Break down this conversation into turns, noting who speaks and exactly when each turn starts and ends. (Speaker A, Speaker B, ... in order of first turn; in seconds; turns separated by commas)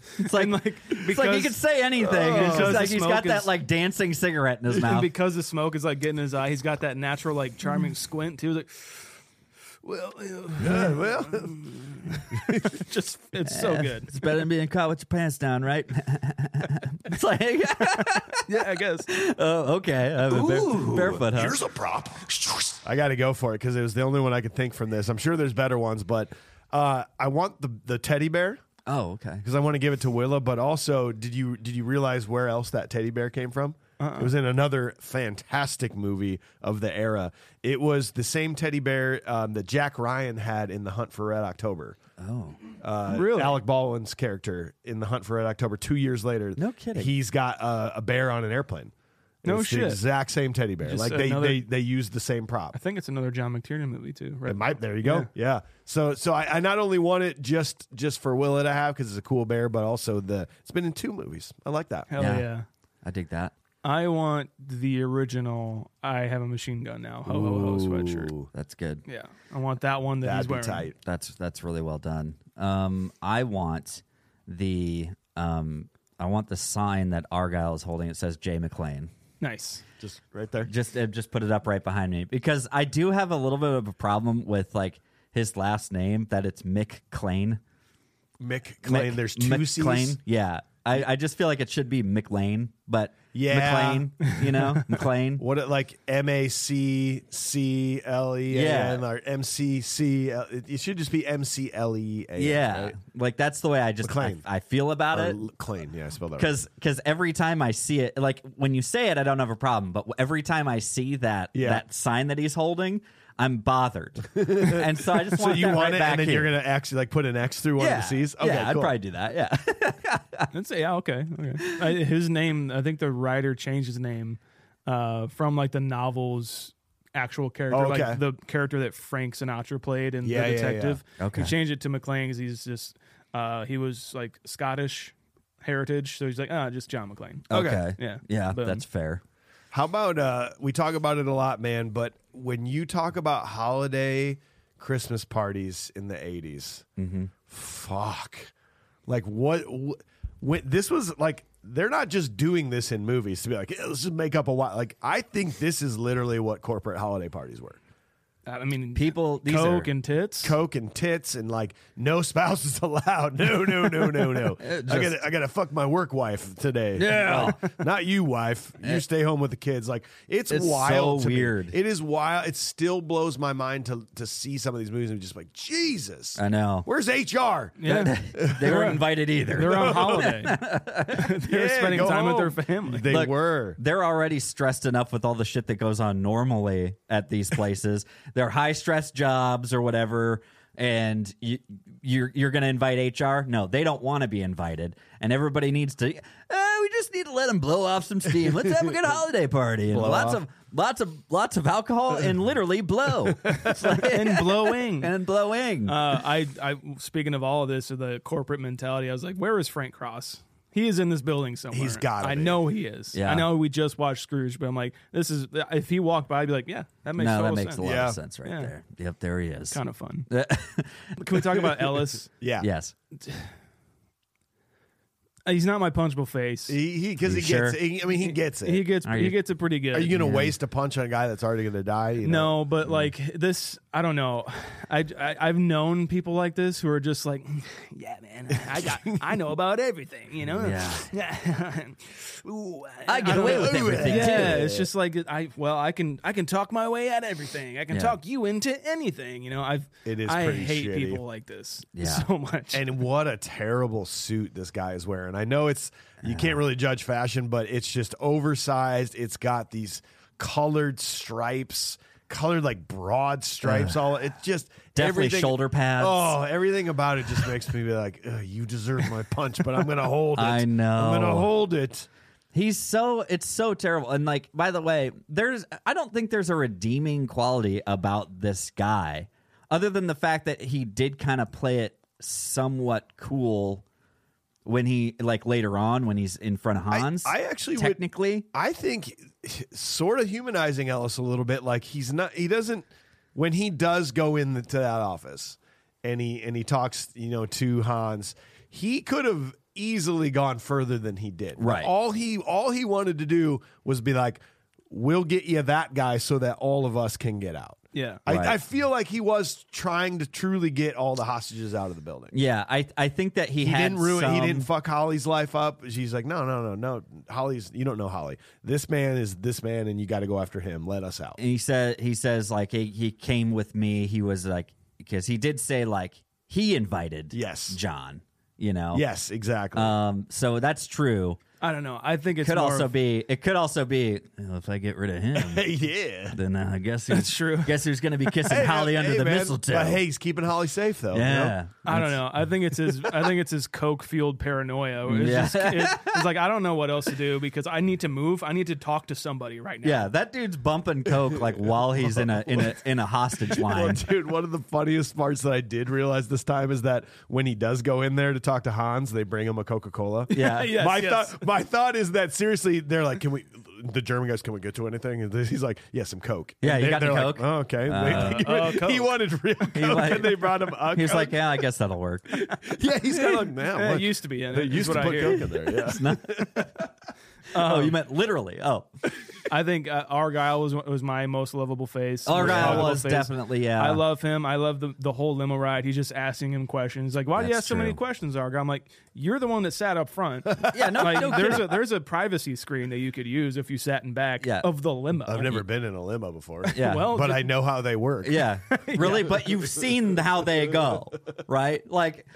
Speaker A: 0.1-5.1, Speaker B: 0.2-3.5, Speaker C: 2.0-2.9, Speaker B: 4.7-9.1, Speaker B: 9.8-14.1, Speaker C: 10.6-11.5, Speaker C: 12.3-12.7, Speaker A: 13.4-21.6, Speaker B: 18.5-19.1, Speaker C: 20.3-28.6, Speaker A: 28.9-29.4, Speaker C: 29.4-42.0, Speaker B: 34.0-34.3, Speaker A: 42.2-42.6, Speaker C: 42.8-52.8, Speaker B: 43.1-43.6, Speaker A: 46.6-47.1, Speaker B: 49.4-50.0, Speaker B: 50.8-51.6, Speaker B: 52.7-55.3, Speaker C: 54.4-62.1, Speaker B: 62.1-62.6, Speaker A: 62.2-62.5, Speaker A: 63.0-63.5, Speaker B: 63.8-68.3, Speaker C: 67.2-68.5, Speaker A: 68.5-69.0, Speaker B: 69.1-70.9, Speaker C: 70.2-70.9, Speaker A: 71.0-79.1, Speaker B: 79.4-79.8, Speaker C: 80.0-80.7, Speaker A: 80.7-87.6, Speaker C: 88.4-90.2, Speaker A: 88.8-95.4, Speaker C: 93.3-94.1, Speaker C: 95.4-103.0, Speaker A: 98.5-99.0, Speaker A: 102.4-105.4, Speaker C: 104.0-104.4, Speaker C: 105.1-106.5, Speaker A: 106.4-116.5, Speaker C: 111.5-111.8, Speaker C: 114.3-118.9, Speaker A: 117.8-120.5, Speaker B: 120.5-137.5, Speaker A: 121.7-121.9, Speaker C: 127.7-128.2, Speaker C: 130.2-131.0, Speaker A: 131.2-131.5, Speaker C: 137.5-137.8, Speaker A: 137.5-139.2, Speaker B: 138.0-138.8, Speaker C: 139.7-146.8, Speaker A: 147.0-147.3, Speaker C: 147.5-148.5, Speaker C: 149.1-157.8, Speaker B: 158.4-160.6, Speaker A: 158.9-159.9, Speaker C: 160.4-177.8, Speaker A: 164.6-165.2, Speaker A: 166.9-167.6, Speaker A: 170.5-171.8, Speaker A: 176.4-176.9, Speaker B: 177.8-180.6, Speaker A: 177.8-181.4, Speaker C: 178.4-178.8, Speaker C: 179.6-180.4, Speaker B: 181.1-183.1, Speaker C: 181.5-183.8, Speaker A: 183.1-206.1, Speaker C: 199.9-200.4, Speaker C: 203.4-203.7, Speaker B: 204.0-205.1, Speaker B: 205.8-217.8, Speaker C: 211.7-212.6, Speaker A: 213.1-213.5, Speaker A: 217.2-221.2, Speaker C: 217.8-218.2, Speaker B: 218.4-218.7, Speaker B: 219.7-220.3, Speaker B: 221.2-222.3, Speaker C: 222.3-222.7, Speaker A: 222.6-222.9, Speaker B: 223.2-223.5, Speaker B: 225.4-226.8, Speaker C: 226.7-228.8, Speaker A: 227.2-227.8, Speaker B: 228.2-230.1, Speaker A: 229.0-229.4, Speaker C: 229.9-232.5, Speaker A: 230.1-230.5, Speaker B: 232.2-252.8, Speaker C: 238.7-239.2, Speaker A: 240.5-241.1, Speaker A: 243.1-244.7, Speaker C: 243.2-244.9, Speaker A: 247.9-248.2, Speaker C: 250.1-251.2, Speaker A: 251.9-252.3, Speaker C: 252.7-272.1, Speaker A: 256.2-256.6, Speaker A: 263.6-264.0, Speaker A: 264.9-266.4, Speaker A: 270.4-271.5, Speaker A: 272.5-283.8, Speaker A: 284.6-288.4, Speaker C: 286.9-288.0, Speaker C: 288.5-312.3, Speaker A: 301.6-301.9, Speaker B: 307.9-308.2, Speaker A: 308.3-308.6, Speaker A: 312.3-314.7, Speaker C: 313.6-321.4, Speaker A: 321.4-329.0, Speaker C: 327.3-327.8, Speaker C: 328.9-329.9, Speaker A: 329.7-331.4, Speaker B: 331.6-332.9, Speaker A: 332.4-335.7, Speaker C: 335.4-336.4, Speaker A: 336.3-340.0, Speaker B: 337.1-337.7, Speaker C: 338.5-341.6, Speaker A: 341.1-342.2, Speaker B: 341.8-350.0, Speaker A: 345.1-346.3, Speaker A: 349.8-354.1, Speaker C: 352.1-352.6, Speaker C: 353.5-371.4, Speaker A: 360.3-360.7, Speaker B: 360.4-361.3, Speaker A: 366.6-368.6, Speaker B: 368.0-369.1, Speaker A: 369.7-372.3, Speaker C: 372.5-376.6, Speaker B: 373.7-375.5, Speaker A: 375.0-376.8, Speaker B: 377.5-377.9, Speaker A: 377.5-378.9, Speaker B: 379.5-395.6, Speaker A: 382.2-384.0, Speaker C: 382.3-383.0, Speaker A: 387.4-388.0, Speaker C: 390.6-391.6, Speaker A: 390.7-391.7, Speaker A: 394.4-394.7, Speaker C: 395.3-398.5, Speaker B: 396.7-397.5, Speaker A: 396.7-397.2, Speaker A: 398.2-402.3, Speaker B: 398.8-399.3